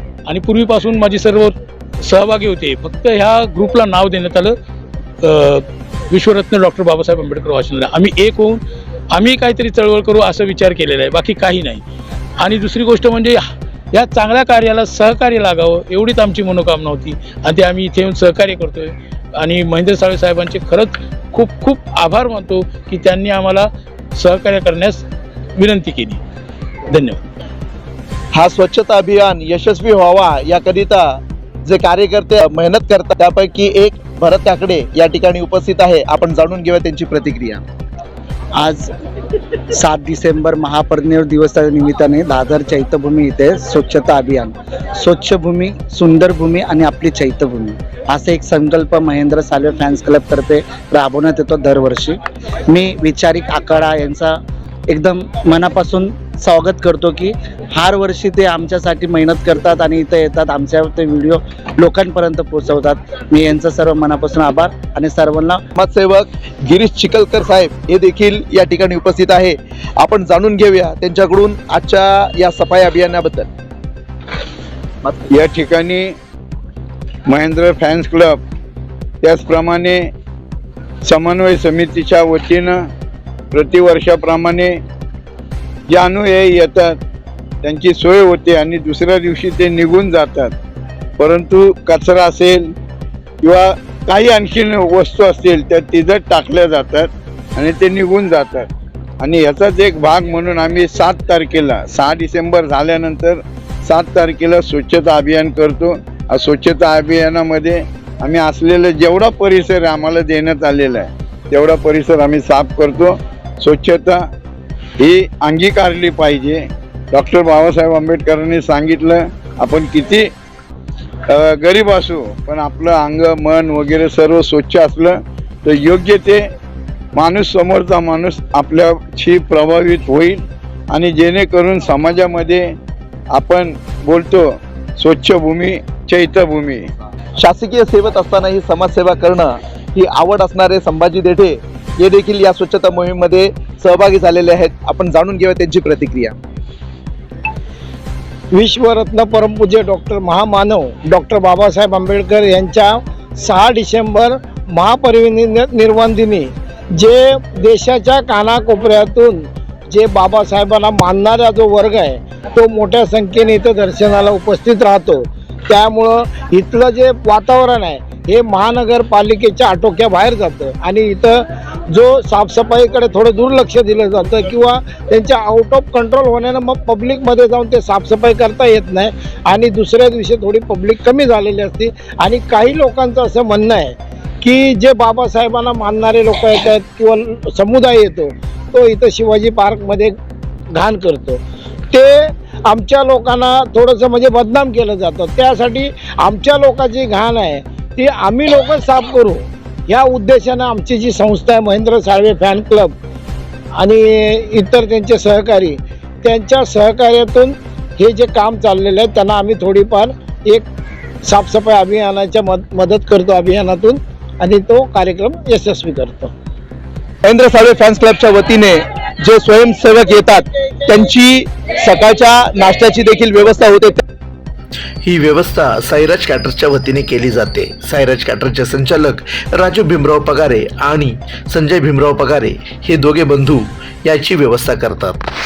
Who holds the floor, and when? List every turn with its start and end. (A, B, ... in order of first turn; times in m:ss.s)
0:00.3-0:04.6 A
0:05.2-0:11.8 A
0:12.4-0:25.0 A
0:25.6-0:26.2 A
0:26.9-0:27.2 A
0:28.3-0:37.6 B
0:38.6-0:38.9 C
0:39.7-1:05.6 C
1:05.8-1:13.5 B
1:15.3-1:16.2 D
1:17.3-1:18.4 D
1:19.2-1:20.1 D
1:21.0-1:22.8 D
1:23.5-1:24.8 D
1:25.9-1:27.0 D
1:27.6-1:30.5 D
1:31.2-1:32.7 D
1:33.4-1:38.7 D
1:39.2-1:54.3 D
1:55.0-2:00.3 D
2:01.3-2:06.5 D
2:07.2-2:12.7 D
2:13.3-2:16.9 D
2:17.4-2:26.4 B
2:28.5-3:10.2 E
3:10.7-3:22.9 E
3:23.8-3:30.7 E
3:31.2-3:36.3 E
3:37.2-3:44.0 B
3:45.0-3:55.2 F